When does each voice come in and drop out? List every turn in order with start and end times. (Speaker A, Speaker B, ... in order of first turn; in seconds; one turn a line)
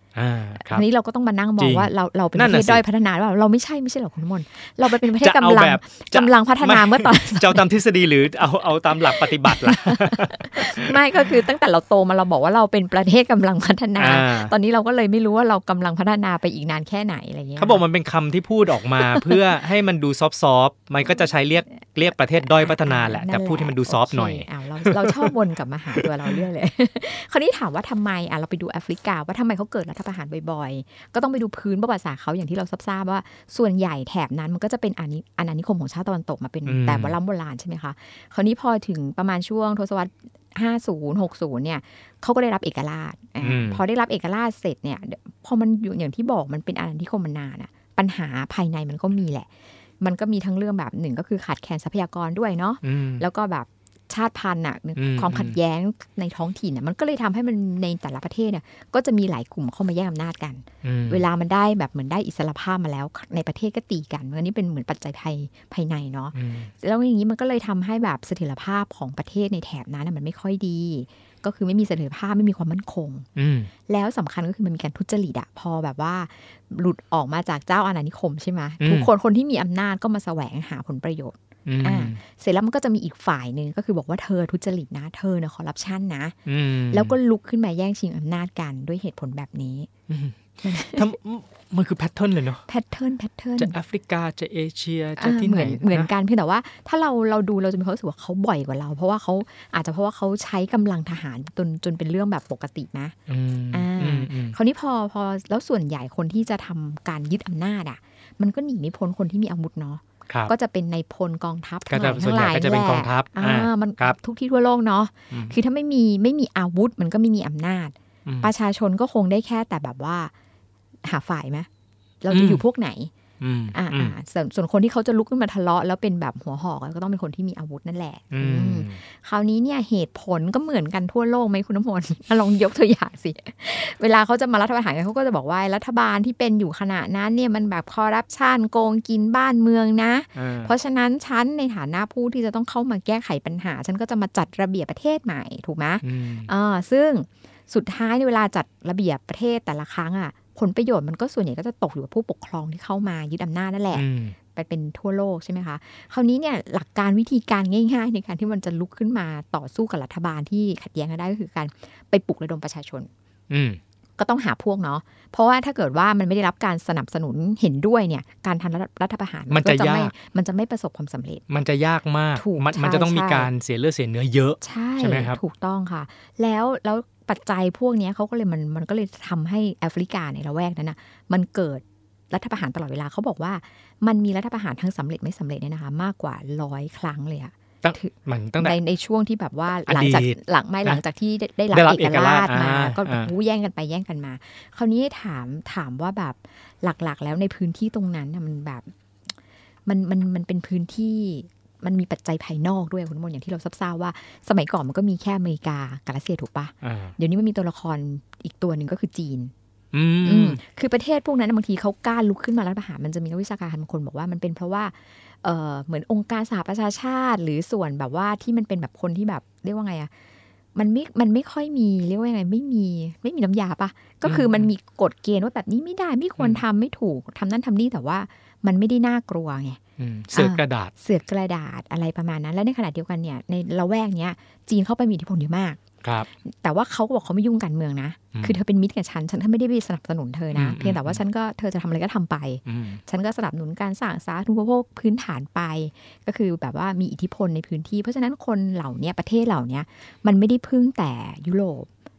Speaker A: 0.1-0.8
Speaker B: 0.6-7.7
Speaker A: 1.6-2.8
Speaker A: 4.8-11.0
Speaker B: 9.0-17.8
Speaker A: 14.0-14.5
Speaker A: 17.6-25.3
Speaker B: 19.0-19.4
Speaker B: 22.6-73.3
Speaker A: 26.0-26.4
Speaker A: 36.7-37.2
Speaker A: 43.4-43.8
Speaker A: 52.8-53.3
Speaker A: 55.0-55.6
Speaker A: 60.8-61.3
Speaker A: 66.3-66.7
Speaker A: 73.4-73.7
Speaker B: 73.9-86.4
Speaker A: 78.8-79.1
Speaker A: 81.7-82.2
Speaker A: 86.5-87.2
Speaker B: 86.9-89.9
Speaker A: 90.1-92.6
Speaker B: 90.6-91.1
Speaker B: 92.7-93.8
Speaker A: 93.6-96.1
Speaker B: 95.2-103.2
Speaker A: 103.3-104.6
Speaker B: 103.7-120.3
Speaker A: 111.9-114.2
Speaker A: 115.3-115.6
Speaker A: 118.2-118.5
Speaker B: 121.0-121.7
Speaker B: 122.2-123.1
Speaker A: 122.3-122.6
Speaker A: 123.4-124.2
Speaker B: 123.7-163.1
Speaker A: 128.3-129.0
Speaker A: 140.3-140.8
Speaker A: 146.0-146.5
Speaker A: 153.9-154.4
Speaker A: 163.5-163.8
Speaker B: 164.2-171.4
Speaker A: 169.5-170.1
Speaker A: 171.5-175.4
Speaker B: 172.4-173.5
Speaker B: 174.6-198.9
Speaker A: 187.8-188.8
Speaker A: 189.9-191.0
Speaker A: 191.7-193.3
Speaker B: 199.9-209.5
Speaker A: 206.8-207.2
Speaker A: 209.9-210.6
Speaker B: 210.2-220.1
Speaker B: 220.8-229.8
Speaker A: 224.2-224.7
Speaker A: 226.4-226.6
Speaker A: 230.0-230.9
Speaker B: 230.3-235.8
Speaker A: 236.0-236.3
Speaker B: 236.4-251.9
Speaker A: 238.3-238.6
Speaker A: 240.5-241.2
Speaker A: 242.7-243.0